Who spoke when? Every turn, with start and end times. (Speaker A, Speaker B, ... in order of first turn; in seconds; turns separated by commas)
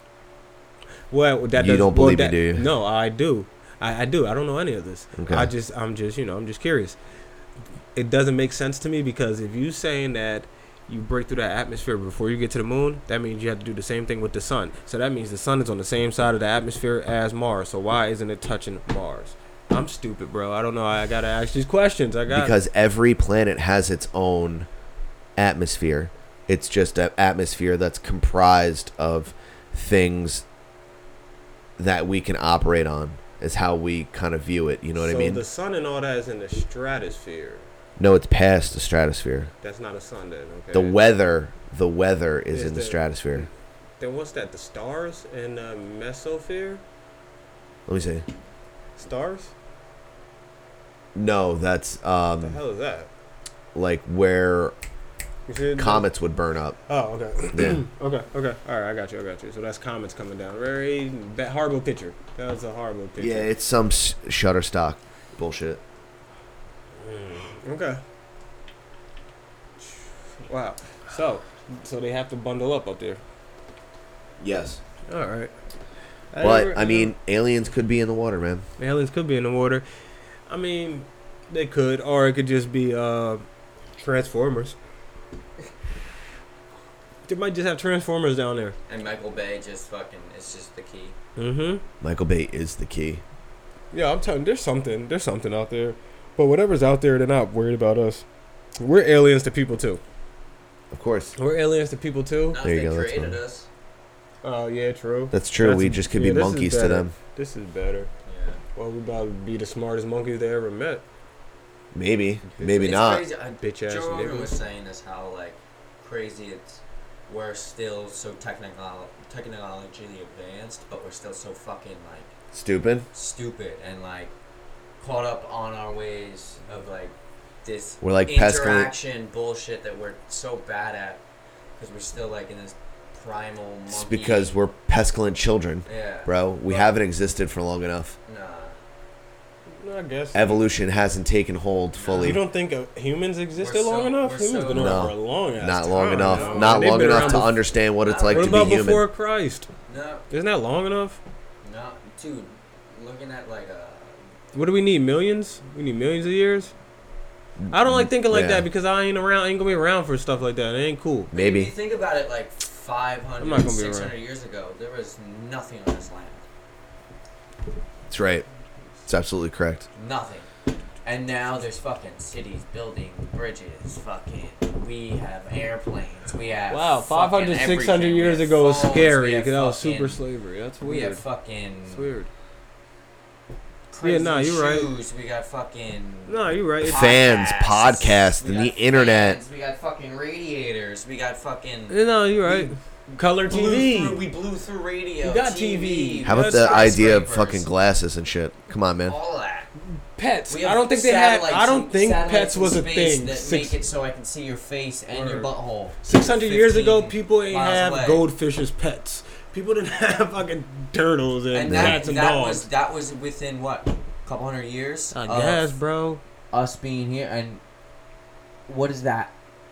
Speaker A: 1.1-7.0, Speaker B: 1.6-2.7, Speaker B: 5.2-5.5, Speaker A: 8.0-22.6, Speaker B: 22.3-24.7, Speaker B: 25.4-30.4, Speaker B: 31.8-35.4, Speaker A: 35.0-37.7, Speaker B: 38.0-39.5, Speaker A: 39.6-41.0, Speaker B: 40.7-43.5, Speaker A: 42.5-43.5, Speaker A: 44.0-46.8, Speaker B: 47.9-48.2, Speaker A: 49.0-49.5, Speaker B: 51.1-52.6, Speaker A: 52.4-53.1, Speaker B: 53.7-54.8, Speaker A: 55.5-56.1, Speaker B: 55.8-56.8, Speaker A: 56.9-63.5, Speaker B: 57.5-57.8, Speaker B: 63.2-65.8, Speaker A: 67.0-68.0, Speaker A: 69.8-73.2, Speaker B: 74.4-74.8, Speaker A: 75.1-75.5, Speaker A: 76.3-77.1, Speaker B: 76.4-78.7, Speaker A: 78.8-79.8, Speaker A: 80.5-83.4, Speaker A: 84.0-84.8, Speaker A: 87.3-88.8, Speaker C: 88.9-91.2, Speaker A: 91.4-91.8, Speaker B: 92.0-93.2, Speaker A: 93.9-98.2, Speaker A: 98.8-100.0, Speaker B: 100.9-101.3, Speaker A: 101.4-102.6, Speaker C: 102.5-103.7, Speaker B: 102.6-103.4, Speaker A: 104.4-108.1, Speaker B: 105.3-107.1, Speaker C: 108.3-108.6, Speaker A: 108.8-111.0, Speaker B: 111.9-113.2, Speaker A: 112.5-112.8, Speaker C: 112.7-122.3, Speaker A: 113.6-114.5, Speaker B: 122.5-123.1, Speaker C: 123.1-124.3, Speaker C: 125.0-131.2, Speaker B: 128.0-128.9, Speaker C: 131.8-134.6, Speaker B: 133.9-138.2, Speaker C: 135.9-136.9, Speaker C: 138.3-138.8, Speaker A: 139.8-140.6, Speaker B: 140.3-142.4, Speaker C: 141.9-142.4, Speaker A: 142.2-147.6, Speaker C: 143.6-145.1, Speaker B: 144.7-149.0, Speaker C: 146.2-148.8, Speaker A: 148.3-149.7, Speaker C: 149.9-150.3, Speaker A: 150.3-151.2, Speaker C: 151.6-154.2, Speaker A: 154.5-156.7, Speaker B: 157.6-158.7, Speaker A: 157.7-161.3, Speaker B: 161.3-161.7, Speaker C: 161.3-166.4, Speaker A: 163.4-164.1, Speaker B: 168.1-168.5, Speaker B: 169.1-169.9, Speaker C: 169.9-170.5, Speaker C: 171.0-180.2, Speaker A: 176.7-181.2, Speaker C: 180.8-182.1, Speaker A: 181.9-182.3, Speaker C: 183.9-192.7, Speaker A: 184.0-184.9, Speaker A: 186.3-187.1, Speaker B: 186.8-189.4, Speaker A: 191.9-194.2, Speaker C: 193.5-197.7, Speaker A: 195.2-196.7, Speaker B: 196.2-199.2, Speaker C: 199.1-199.7, Speaker A: 200.2-203.8, Speaker C: 200.5-208.3, Speaker A: 205.1-205.5, Speaker A: 206.0-212.7, Speaker C: 211.5-215.8, Speaker B: 211.7-212.0, Speaker A: 215.1-216.2, Speaker C: 216.5-217.6, Speaker C: 218.7-219.3